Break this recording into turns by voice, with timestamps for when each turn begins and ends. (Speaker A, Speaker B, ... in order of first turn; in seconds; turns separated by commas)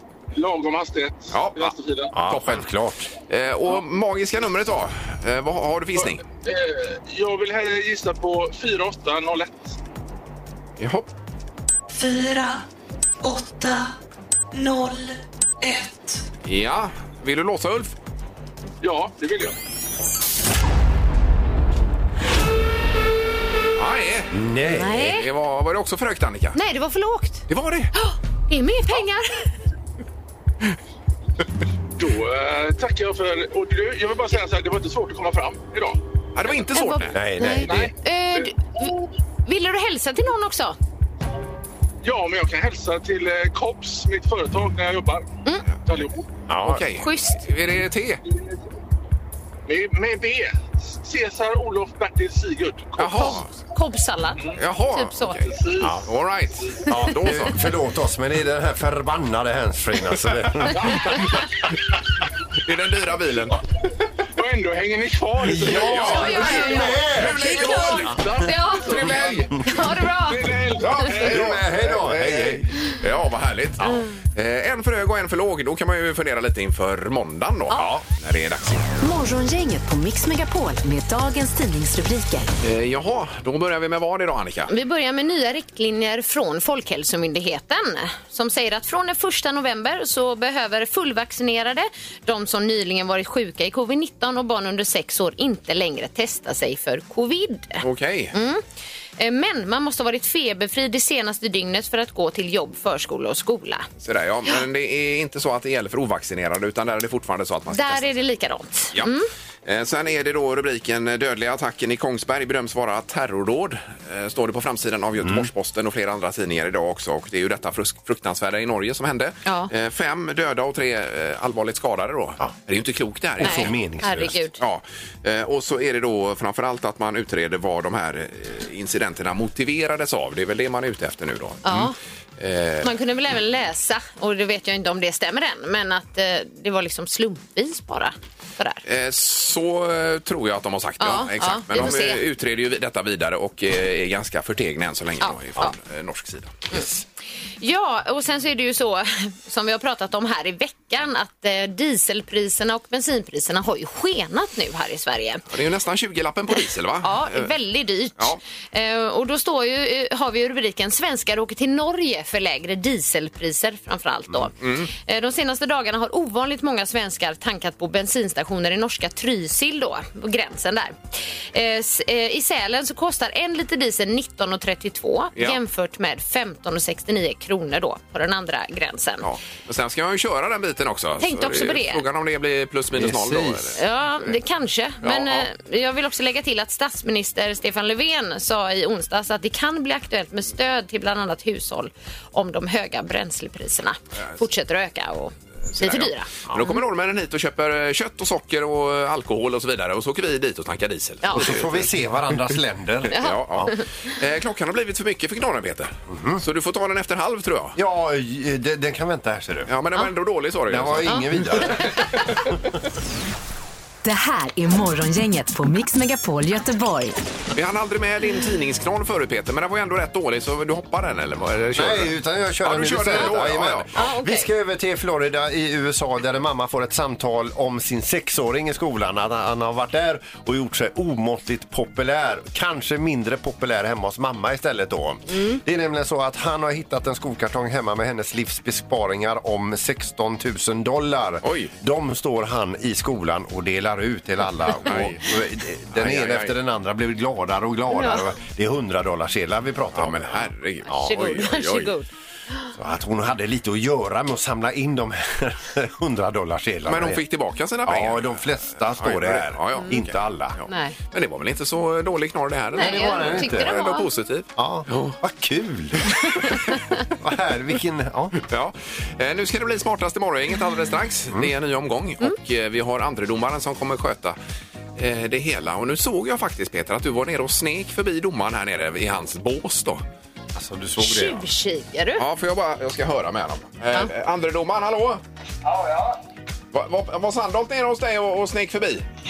Speaker A: 0.3-2.1, Speaker B: 1.3-2.7, Speaker C: 2.1-3.1, Speaker B: 3.3-6.2, Speaker A: 6.0-9.8, Speaker B: 10.8-11.1, Speaker D: 11.9-12.6, Speaker D: 13.2-13.9, Speaker D: 14.5-16.3, Speaker B: 16.4-17.9, Speaker A: 18.8-19.6, Speaker B: 23.8-24.3, Speaker C: 24.3-25.1, Speaker E: 24.7-25.3, Speaker B: 24.9-26.6, Speaker E: 26.6-29.5, Speaker B: 27.5-27.9, Speaker A: 32.0-36.0, Speaker B: 36.4-37.2, Speaker E: 36.7-38.9, Speaker C: 37.1-37.9, Speaker A: 37.6-38.5, Speaker E: 39.5-40.8, Speaker A: 42.0-45.3, Speaker A: 45.9-46.3, Speaker C: 46.5-46.9, Speaker B: 46.6-48.2, Speaker E: 47.0-47.4, Speaker A: 49.7-53.4, Speaker B: 53.0-53.5, Speaker E: 53.1-55.5, Speaker B: 54.6-57.6, Speaker A: 55.5-55.9, Speaker C: 56.9-61.0, Speaker B: 62.6-63.6, Speaker A: 64.4-66.7, Speaker C: 65.4-67.8, Speaker B: 65.6-68.2, Speaker E: 65.9-71.1, Speaker A: 67.4-71.6, Speaker B: 68.9-69.5, Speaker B: 70.8-78.9, Speaker C: 71.2-72.7, Speaker F: 79.0-82.5, Speaker B: 82.6-84.7, Speaker E: 84.7-98.6, Speaker B: 97.8-98.3, Speaker E: 99.2-103.9, Speaker B: 104.0-108.2, Speaker E: 107.7-109.3, Speaker B: 109.7-123.8, Speaker C: 115.2-115.5, Speaker E: 119.5-119.7, Speaker C: 123.4-124.4, Speaker E: 123.4-124.6, Speaker B: 124.6-131.9, Speaker E: 131.6-131.9, Speaker B: 132.4-132.9, Speaker E: 132.8-138.8, Speaker B: 138.8-146.7, Speaker E: 141.0-142.2, Speaker E: 145.2-145.7, Speaker E: 147.6-155.4, Speaker B: 155.5-157.5, Speaker E: 157.0-179.3, Speaker B: 164.6-164.9, Speaker B: 179.2-184.3, Speaker E: 181.2-182.0, Speaker C: 183.0-183.8, Speaker E: 183.8-196.8, Speaker B: 185.0-185.5, Speaker B: 195.7-201.9, Speaker E: 201.2-201.5, Speaker C: 201.3-203.7, Speaker E: 203.1-203.9, Speaker B: 203.2-207.8, Speaker C: 206.1-206.4, Speaker C: 207.8-209.7, Speaker B: 209.7-211.6, Speaker C: 210.7-211.9, Speaker E: 211.1-212.2, Speaker F: 214.0-217.2, Speaker B: 217.5-223.9, Speaker C: 221.7-251.2, Speaker E: 224.0-224.5, Speaker B: 241.4-241.7, Speaker B: 244.8-245.2, Speaker B: 245.9-246.5, Speaker E: 247.9-248.3, Speaker B: 249.9-251.9, Speaker E: 250.9-252.1, Speaker C: 252.8-257.2, Speaker B: 256.9-258.4, Speaker C: 257.9-260.6, Speaker B: 259.0-265.2, Speaker E: 260.7-261.0, Speaker C: 262.8-263.8, Speaker E: 262.8-264.1, Speaker C: 264.6-266.2, Speaker C: 267.2-268.4, Speaker B: 268.5-274.4, Speaker B: 275.0-280.0, Speaker C: 280.5-281.4, Speaker E: 281.0-282.2, Speaker B: 282.2-285.2, Speaker B: 286.7-289.1